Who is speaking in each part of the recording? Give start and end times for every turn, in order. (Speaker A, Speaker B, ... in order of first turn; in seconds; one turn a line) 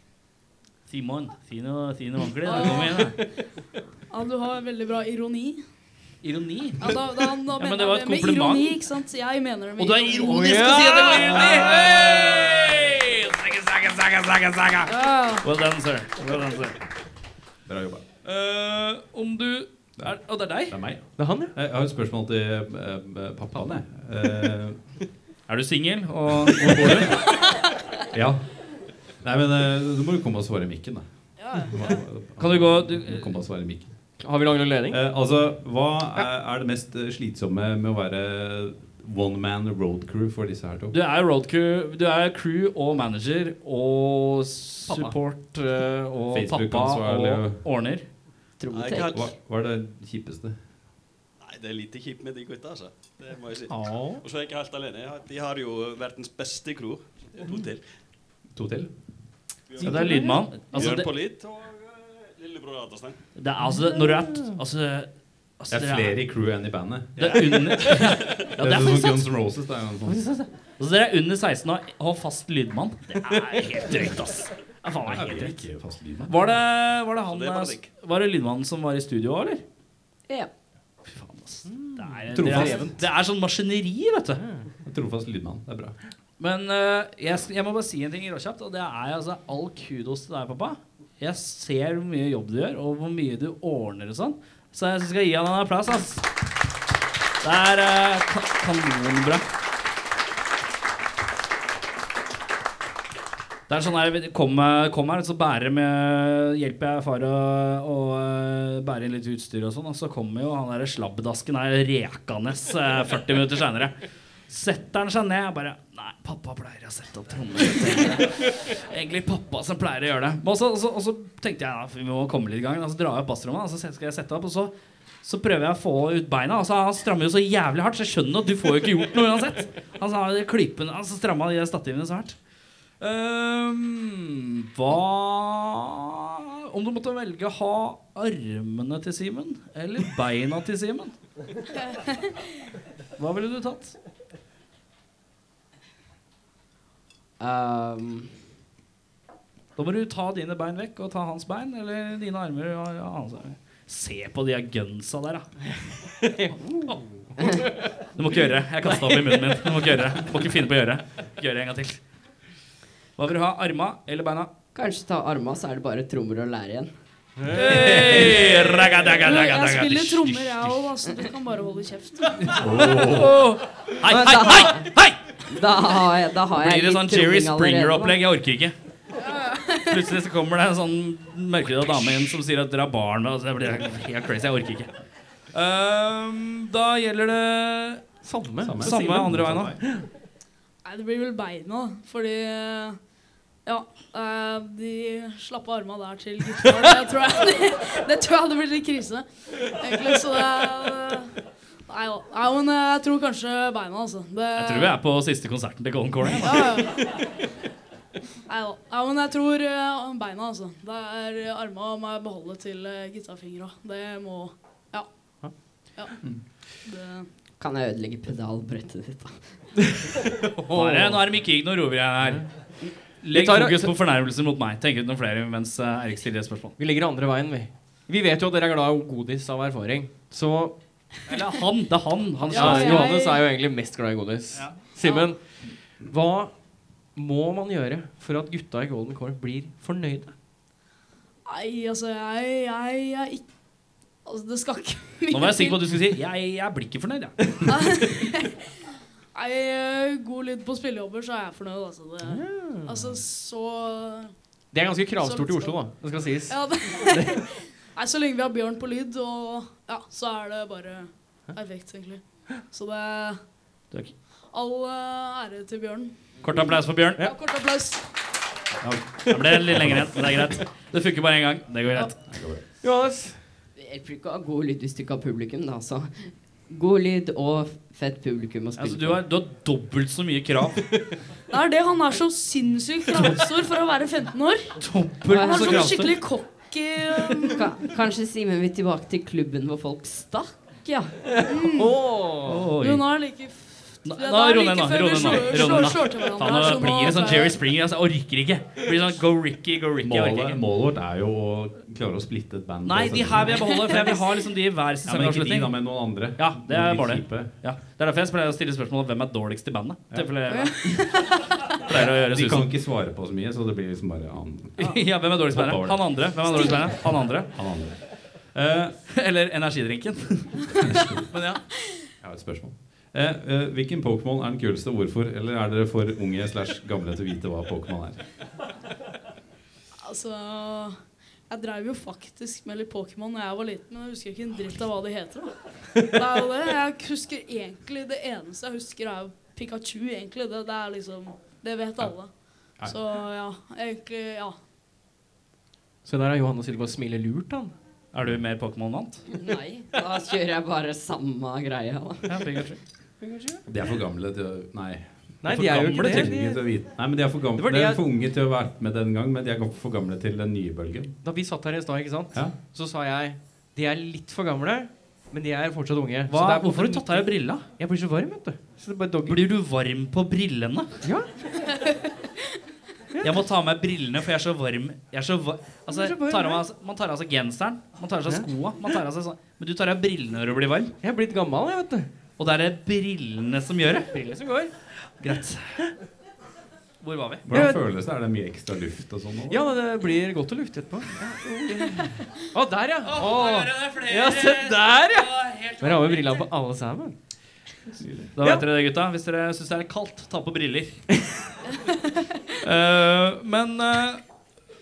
Speaker A: 0.9-3.2
Speaker B: 2.4-3.5
Speaker C: 2.9-3.4
Speaker B: 4.1-5.7
Speaker A: 6.2-8.8
Speaker B: 6.8-11.5
Speaker A: 9.8-16.8
Speaker C: 10.3-11.7
Speaker D: 11.4-12.3
Speaker B: 14.9-15.4
Speaker D: 17.6-18.0
Speaker A: 18.2-20.8
Speaker D: 20.0-25.0
Speaker C: 21.2-21.5
Speaker A: 25.5-27.3
Speaker D: 26.5-27.3
Speaker D: 28.1-33.9
Speaker B: 31.4-32.0
Speaker A: 32.4-33.3
Speaker C: 34.2-35.0
Speaker D: 34.9-41.0
Speaker A: 40.9-48.1
Speaker C: 44.9-46.2
Speaker D: 46.3-48.1
Speaker E: 48.6-49.3
Speaker F: 48.7-49.3
Speaker D: 49.1-50.6
Speaker F: 51.4-58.0
Speaker A: 53.7-54.2
Speaker D: 58.5-59.4
Speaker F: 59.7-63.3
Speaker C: 59.8-60.7
Speaker A: 59.8-61.1
Speaker A: 63.3-66.2
Speaker C: 63.6-64.5
Speaker D: 65.7-67.5
Speaker A: 67.2-69.2
Speaker F: 67.2-68.4
Speaker D: 68.6-70.2
Speaker A: 70.8-79.6
Speaker D: 75.0-76.5
Speaker F: 77.2-77.9
Speaker A: 81.0-84.4
Speaker C: 81.7-82.9
Speaker D: 82.3-83.0
Speaker C: 84.4-84.7
Speaker D: 84.8-86.0
Speaker A: 86.4-96.3
Speaker A: 97.4-99.5
Speaker A: 103.7-132.4
Speaker A: 133.0-136.2
Speaker A: 136.7-141.2
Speaker B: 141.8-142.3
Speaker A: 143.2-144.0
Speaker E: 147.4-148.4
Speaker A: 149.8-155.8
Speaker C: 156.2-156.8
Speaker A: 156.8-157.3
Speaker C: 157.4-158.1
Speaker A: 158.1-162.1
Speaker C: 158.8-160.2
Speaker A: 163.2-164.5
Speaker E: 164.7-166.9
Speaker C: 167.4-168.9
Speaker A: 167.5-170.8
Speaker B: 169.2-172.6
Speaker D: 172.5-173.4
Speaker C: 173.0-173.6
Speaker A: 173.2-175.4
Speaker E: 174.1-178.2
Speaker A: 176.6-178.7
Speaker B: 179.2-180.0
Speaker A: 179.8-184.9
Speaker A: 185.5-188.1
Speaker C: 188.2-190.1
Speaker D: 188.6-189.9
Speaker A: 188.8-189.7
Speaker B: 190.8-193.0
Speaker B: 193.6-201.3
Speaker B: 201.9-205.0
Speaker A: 204.6-206.7
Speaker B: 206.4-207.2
Speaker B: 208.5-216.2
Speaker B: 216.7-217.3
Speaker E: 217.6-219.9
Speaker C: 220.4-221.3
Speaker A: 220.7-226.8
Speaker C: 222.2-223.9
Speaker C: 226.8-230.8
Speaker A: 231.3-233.1
Speaker B: 232.5-233.4
Speaker C: 232.5-240.3
Speaker A: 234.5-235.3
Speaker B: 241.4-243.5
Speaker B: 244.2-246.1
Speaker A: 245.3-247.6
Speaker B: 247.7-248.5
Speaker B: 249.3-254.3
Speaker C: 252.2-252.9
Speaker C: 254.7-257.3
Speaker B: 255.2-263.5
Speaker A: 263.9-264.1
Speaker B: 264.5-268.1
Speaker A: 266.4-267.2
Speaker D: 268.8-270.5
Speaker A: 269.3-272.2
Speaker D: 272.3-272.6
Speaker C: 272.8-273.4
Speaker E: 273.8-279.2
Speaker A: 278.8-280.9
Speaker B: 281.5-287.7
Speaker A: 284.8-286.4
Speaker E: 285.2-286.1
Speaker E: 287.5-291.4
Speaker C: 291.4-292.7
Speaker B: 291.4-292.2
Speaker A: 292.4-293.2
Speaker B: 292.8-297.6
Speaker A: 294.0-300.6
Speaker D: 300.0-303.9
Speaker A: 302.8-312.7
Speaker B: 303.5-304.3
Speaker D: 305.0-307.5
Speaker D: 310.1-310.5
Speaker D: 311.9-318.5
Speaker A: 314.8-321.7
Speaker D: 320.8-321.2
Speaker D: 322.2-328.2
Speaker B: 330.0-344.6
Speaker C: 346.0-347.7
Speaker A: 348.1-349.3
Speaker E: 349.3-352.7
Speaker A: 352.2-352.8
Speaker C: 353.2-353.6
Speaker D: 353.7-361.1
Speaker C: 355.4-356.9
Speaker A: 355.5-356.3
Speaker C: 357.5-358.0
Speaker C: 361.2-369.4
Speaker A: 366.3-367.6
Speaker A: 369.2-371.1
Speaker C: 371.0-371.4
Speaker A: 373.2-380.9
Speaker C: 375.9-376.6
Speaker C: 378.3-379.0
Speaker C: 381.0-382.1
Speaker A: 382.4-384.2
Speaker C: 384.1-384.7
Speaker A: 384.9-385.9
Speaker A: 387.0-387.4
Speaker D: 387.4-389.7
Speaker C: 387.5-387.8
Speaker C: 389.5-397.1
Speaker A: 393.1-396.5
Speaker A: 397.9-401.2
Speaker D: 398.0-398.3
Speaker A: 402.6-404.3